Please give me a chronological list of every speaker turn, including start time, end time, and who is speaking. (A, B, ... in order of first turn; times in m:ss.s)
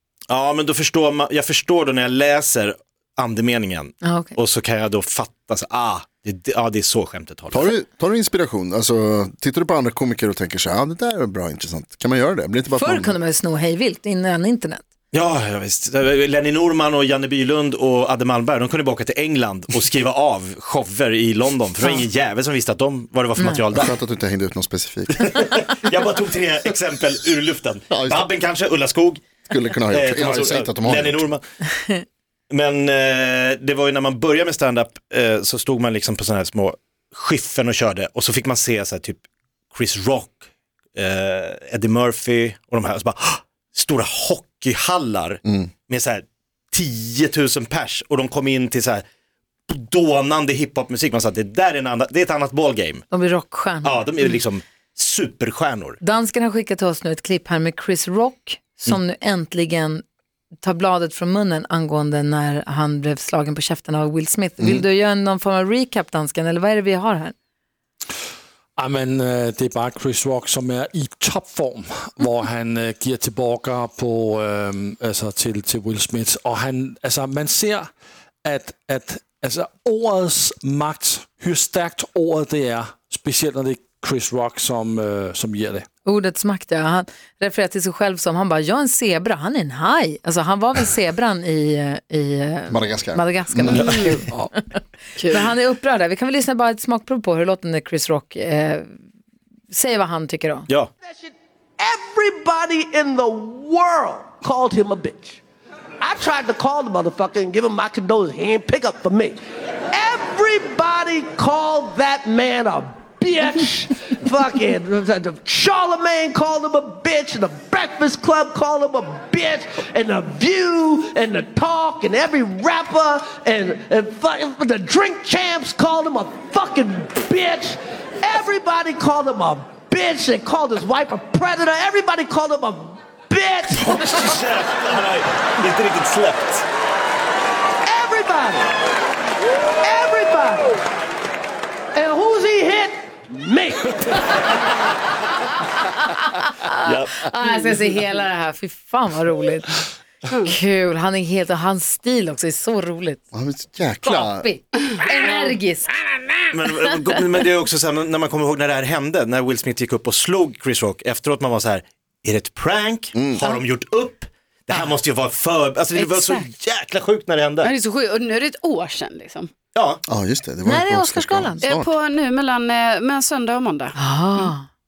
0:00.3-0:07.7 A
0:04.0-0:04.4 B
0:07.5-0:13.2 C
0:12.7-0:14.8 B
0:15.1-0:24.0 A
0:23.4-0:23.6 B
0:23.7-0:25.4 C
0:25.2-0:29.2 A
0:27.9-0:28.2 C
0:29.5-0:31.2 C
0:29.9-0:31.4 A
0:32.5-0:40.4 A
0:40.9-0:49.0 A
0:45.4-0:45.7 C
0:49.7-0:53.0 A
0:53.1-0:54.1 B
0:53.8-0:56.0 A
0:56.0-1:00.0 B
1:00.6-1:07.3 B
1:04.6-1:04.8 C
1:08.8-1:17.9 D
1:18.4-1:25.8 D
1:26.0-1:38.9 B
1:32.7-1:33.8 C
1:33.7-1:34.5 D
1:33.7-1:34.2 E
1:35.2-1:35.5 E
1:39.7-1:40.7 B
1:41.0-1:45.4 F
1:46.0-1:49.4 F
1:49.9-2:14.0 F
2:13.7-2:16.6 A
2:17.8-2:18.8 F
2:19.8-2:20.8 F
2:21.9-2:24.6 F
2:26.4-2:29.7 B
2:26.8-2:27.2 A
2:30.3-2:30.5 E
2:30.4-2:33.2 B
2:33.3-2:34.5 C
2:34.0-2:36.0 B
2:36.5-2:47.7 A
2:43.1-2:43.5 C
2:45.9-2:46.4 B
2:47.6-2:49.5 E
2:49.7-2:50.0 A
2:50.1-2:51.9 C
2:50.6-2:51.6 B
2:51.6-2:54.5 E
2:54.0-2:54.7 B